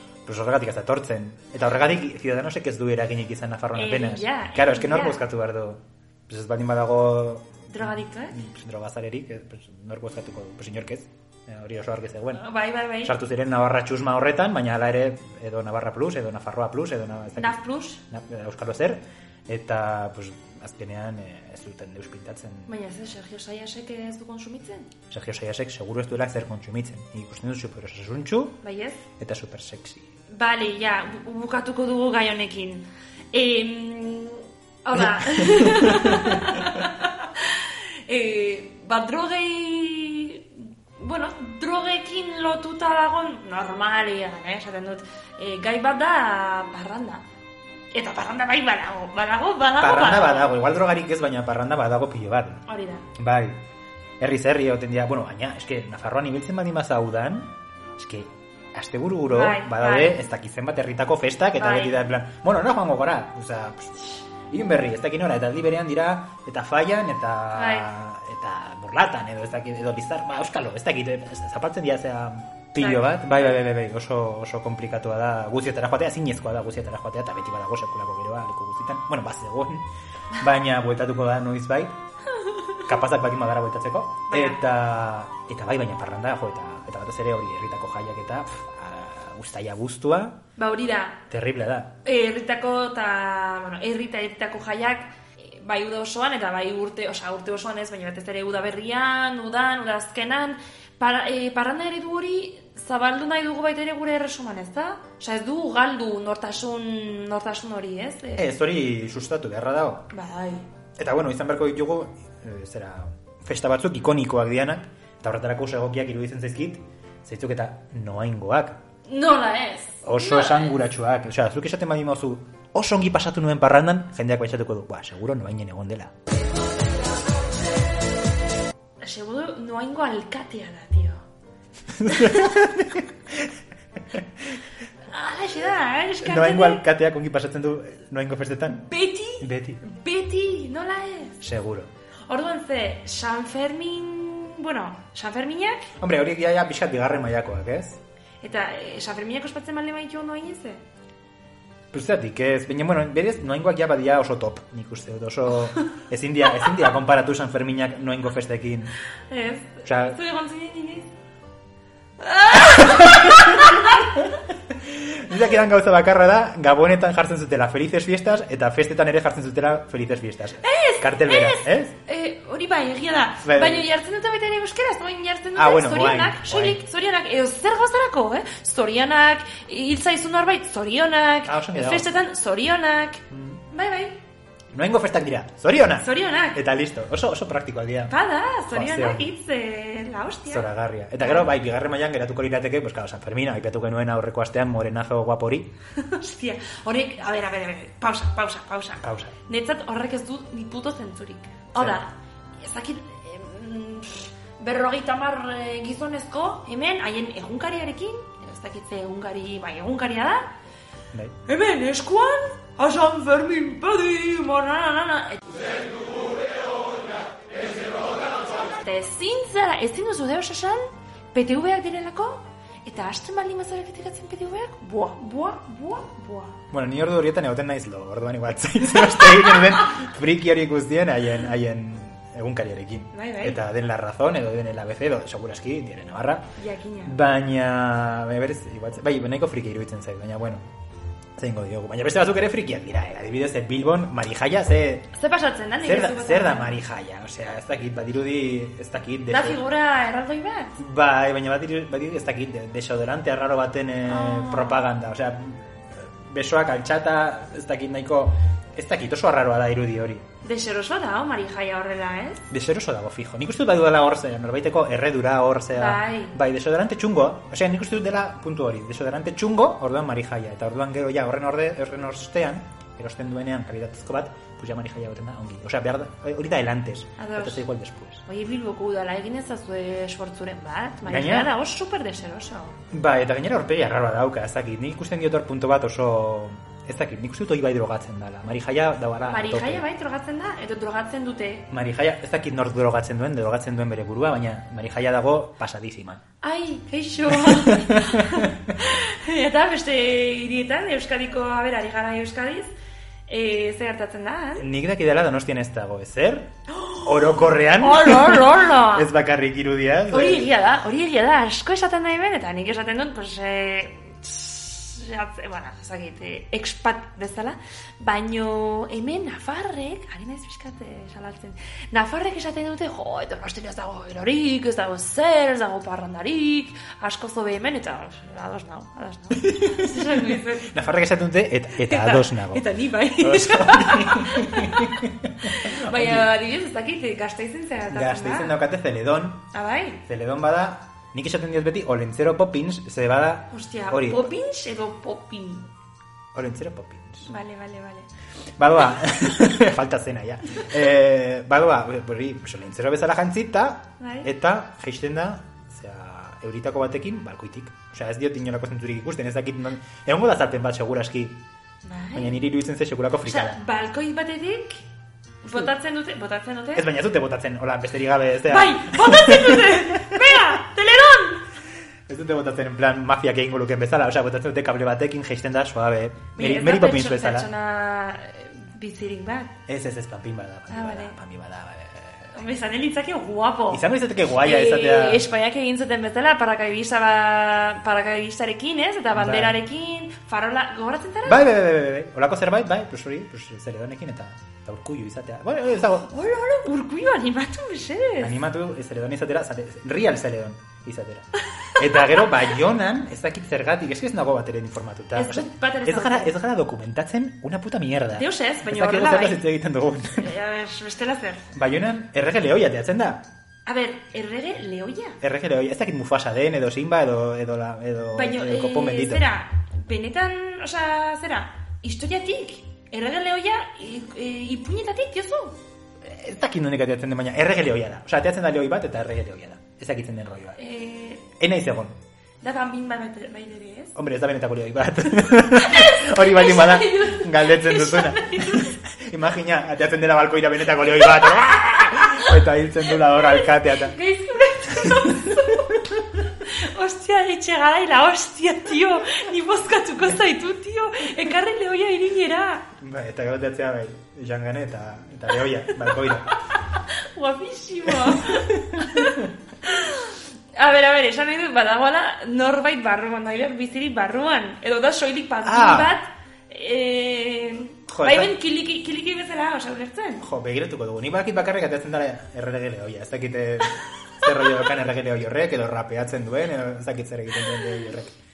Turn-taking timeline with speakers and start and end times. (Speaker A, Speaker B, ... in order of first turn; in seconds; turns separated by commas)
Speaker A: 0.2-12.4, Speaker B: 3.7-5.2, Speaker B: 7.7-8.4, Speaker B: 12.3-13.1, Speaker A: 13.0-22.7, Speaker B: 17.4-18.0, Speaker B: 22.7-24.9, Speaker A: 25.1-28.6, Speaker B: 28.6-29.1, Speaker A: 29.2-30.1, Speaker B: 30.3-47.2, Speaker A: 35.0-36.7, Speaker B: 47.9-50.5, Speaker A: 49.8-52.6, Speaker B: 52.7-53.0, Speaker A: 53.1-53.6, Speaker A: 54.2-82.0, Speaker B: 59.3-60.2, Speaker B: 61.6-62.0, Speaker B: 67.5-67.9, Speaker B: 72.8-73.5, Speaker B: 82.4-82.8, Speaker A: 82.8-90.4, Speaker B: 84.3-84.6, Speaker B: 90.6-91.2, Speaker A: 91.3-92.0, Speaker B: 92.0-108.5, Speaker A: 108.4-110.1, Speaker B: 110.1-110.7, Speaker A: 111.0-118.8, Speaker B: 119.1-120.7, Speaker A: 120.0-126.1, Speaker B: 129.0-131.2, Speaker A: 131.9-133.5, Speaker B: 132.1-132.6, Speaker B: 135.1-136.8, Speaker A: 136.2-139.8, Speaker B: 138.8-141.4, Speaker A: 141.4-141.9, Speaker B: 142.3-145.9, Speaker A: 146.0-148.0, Speaker B: 148.4-150.8, Speaker A: 151.9-158.9, Speaker B: 159.3-161.1, Speaker A: 159.8-160.2, Speaker B: 162.2-164.2, Speaker A: 162.5-171.9, Speaker B: 170.6-184.2, Speaker A: 173.4-173.9, Speaker A: 175.6-176.8, Speaker A: 181.4-182.1, Speaker A: 183.3-183.6, Speaker A: 184.7-188.1, Speaker B: 186.0-186.6, Speaker B: 188.1-190.7, Speaker A: 188.7-189.3, Speaker A: 190.5-195.7, Speaker B: 191.2-191.5, Speaker B: 196.0-210.5, Speaker A: 199.0-199.3, Speaker B: 211.4-216.3, Speaker B: 218.7-226.6, Speaker A: 226.7-236.5, Speaker B: 233.1-233.6, Speaker B: 236.6-237.2, Speaker A: 237.0-240.6, Speaker A: 241.4-245.1, Speaker B: 245.1-246.8, Speaker A: 245.8-249.6, Speaker B: 249.3-250.8, Speaker A: 250.8-260.2, Speaker B: 254.1-254.8, Speaker B: 260.4-262.5, Speaker A: 262.5-278.2, Speaker B: 265.7-266.4, Speaker B: 277.2-277.6, Speaker B: 278.2-282.8, Speaker A: 281.0-281.5, Speaker A: 282.9-289.8, Speaker B: 289.3-291.7, Speaker A: 291.7-296.2, Speaker B: 296.4-302.7, Speaker A: 297.3-298.7, Speaker B: 303.3-304.7, Speaker A: 304.6-310.5, Speaker B: 306.7-309.1, Speaker B: 310.1-330.8, Speaker A: 329.3-336.3, Speaker B: 331.8-338.6, Speaker A: 337.9-339.4, Speaker B: 339.5-340.0, Speaker A: 340.0-344.3, Speaker B: 343.5-345.7, Speaker A: 346.3-347.3, Speaker B: 347.2-348.1, Speaker A: 348.6-361.4, Speaker B: 354.0-354.3, Speaker B: 361.8-362.4, Speaker A: 362.1-363.6, Speaker B: 363.2-364.8, Speaker B: 365.4-366.9, Speaker A: 366.7-370.3, Speaker B: 368.5-371.4, Speaker A: 372.1-377.5, Speaker B: 376.4-379.5, Speaker A: 379.7-382.3, Speaker B: 380.7-381.1, Speaker B: 382.3-383.8, Speaker A: 383.7-385.2, Speaker B: 384.4-391.4, Speaker A: 389.1-389.6, Speaker A: 391.2-396.1, Speaker B: 396.0-398.3, Speaker A: 398.2-410.3, Speaker B: 401.8-402.2, Speaker B: 405.1-406.3, Speaker B: 408.1-409.4, Speaker B: 410.2-411.5, Speaker A: 411.5-413.3, Speaker B: 413.6-415.2, Speaker A: 415.2-419.2, Speaker B: 418.1-425.6, Speaker A: 426.0-430.6, Speaker B: 430.6-431.3, Speaker A: 431.4-432.0, Speaker B: 432.4-433.9, Speaker A: 433.9-444.0, Speaker B: 435.6-438.8, Speaker B: 442.0-442.3, Speaker B: 443.1-445.7, Speaker A: 444.7-445.6, Speaker B: 446.4-452.7, Speaker A: 452.8-456.3, Speaker B: 456.5-470.2, Speaker A: 457.9-459.3, Speaker A: 465.4-465.9, Speaker A: 467.9-468.3, Speaker A: 470.2-478.1